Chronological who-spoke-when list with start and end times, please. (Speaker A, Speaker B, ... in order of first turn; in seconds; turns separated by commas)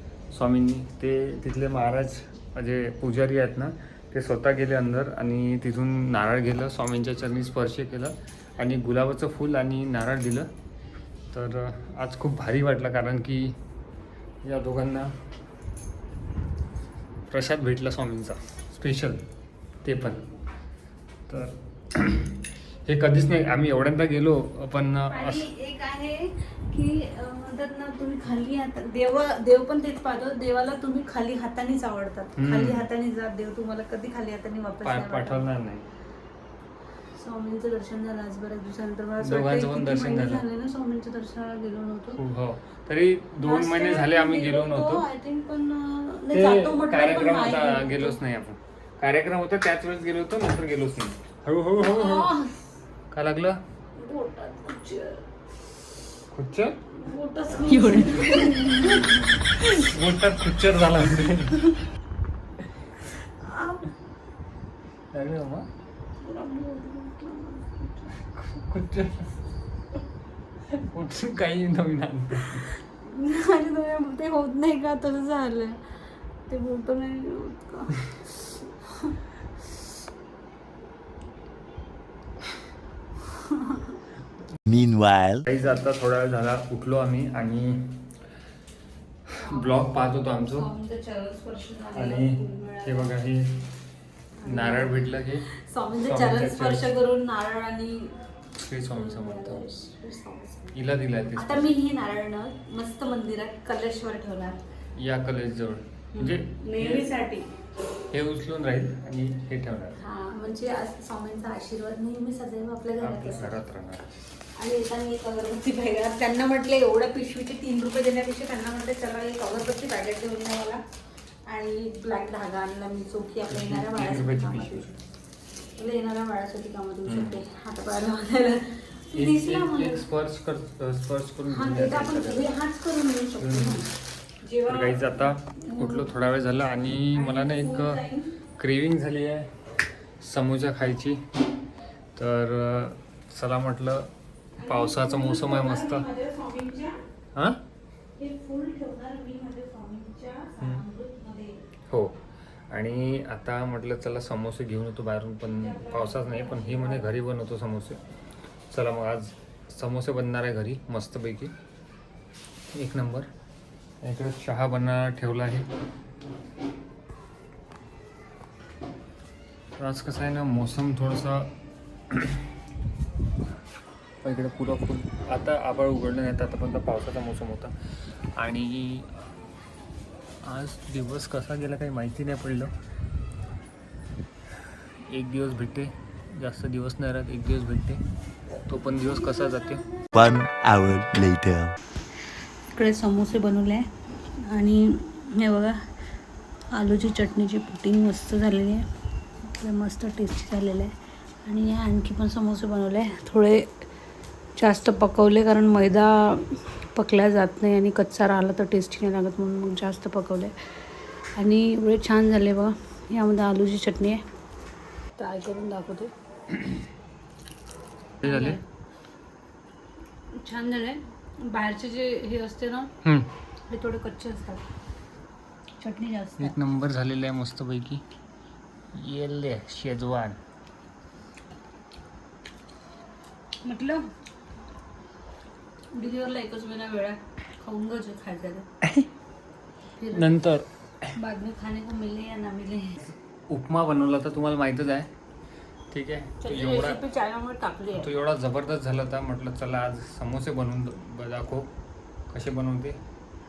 Speaker A: 0.3-10.5, Speaker A: 11.3-13.6, Speaker A: 14.4-15.1, Speaker A: 17.3-19.2, Speaker A: 19.8-20.2, Speaker A: 21.3-25.5, Speaker B: 25.1-35.5, Speaker A: 32.4-32.8, Speaker A: 34.8-35.8, Speaker B: 37.2-42.2, Speaker A: 39.2-40.4, Speaker A: 42.1-45.0, Speaker B: 43.4-48.2, Speaker A: 46.3-52.3, Speaker B: 51.8-52.5, Speaker A: 53.1-53.6, Speaker B: 54.0-55.3, Speaker A: 56.3-56.8, Speaker B: 56.9-59.8, Speaker A: 57.7-58.4, Speaker A: 59.8-61.7, Speaker B: 63.4-63.9, Speaker A: 65.1-65.7, Speaker B: 66.2-68.3, Speaker A: 68.2-69.3, Speaker A: 70.8-72.7, Speaker B: 73.0-79.2, Speaker B: 83.4-83.8, Speaker C: 84.7-85.4, Speaker A: 85.5-88.0, Speaker B: 89.4-93.1, Speaker A: 89.5-90.7, Speaker A: 91.9-93.6, Speaker B: 94.4-95.1, Speaker A: 94.4-95.4, Speaker B: 95.7-98.2, Speaker A: 96.0-96.8, Speaker A: 98.6-99.7, Speaker B: 98.9-100.7, Speaker A: 100.7-101.7, Speaker B: 101.3-104.6, Speaker A: 105.0-107.1, Speaker B: 106.1-107.5, Speaker A: 108.1-110.0, Speaker B: 110.0-113.6, Speaker A: 113.0-114.0, Speaker B: 114.6-120.8, Speaker B: 121.5-124.9, Speaker A: 123.5-124.9, Speaker B: 125.8-130.0, Speaker A: 127.0-127.4, Speaker A: 129.1-132.5, Speaker B: 131.5-133.9, Speaker A: 133.4-133.8, Speaker B: 134.4-136.1, Speaker A: 134.7-138.0, Speaker B: 137.1-138.3, Speaker A: 138.6-139.5, Speaker A: 140.2-141.2, Speaker A: 142.2-144.1, Speaker B: 144.6-147.0, Speaker A: 144.6-146.1, Speaker B: 148.2-151.6, Speaker A: 151.9-158.0, Speaker B: 155.4-157.2, Speaker A: 158.7-161.5, Speaker A: 162.7-163.3, Speaker A: 164.0-165.7, Speaker A: 169.8-171.5, Speaker A: 172.1-172.4, Speaker A: 174.2-177.7, Speaker A: 178.3-179.3, Speaker A: 180.4-182.7, Speaker A: 185.1-188.0, Speaker A: 188.7-189.8, Speaker C: 190.1-191.7, Speaker B: 192.7-193.8, Speaker B: 194.5-195.8, Speaker B: 196.7-198.8, Speaker B: 199.4-200.9, Speaker B: 201.4-203.9, Speaker B: 204.6-210.5, Speaker B: 211.4-214.2, Speaker B: 215.2-216.1, Speaker B: 218.2-218.6, Speaker A: 218.2-218.6, Speaker B: 220.4-222.9, Speaker A: 223.0-223.3, Speaker B: 223.7-224.6, Speaker B: 225.8-226.5, Speaker A: 226.4-228.0, Speaker A: 228.9-230.4, Speaker B: 233.6-234.0, Speaker B: 235.9-238.7, Speaker B: 240.0-240.3, Speaker A: 240.1-240.7, Speaker B: 241.2-243.0, Speaker A: 243.0-245.1, Speaker A: 245.9-247.0, Speaker B: 246.4-248.1, Speaker A: 247.9-251.7, Speaker A: 252.3-253.0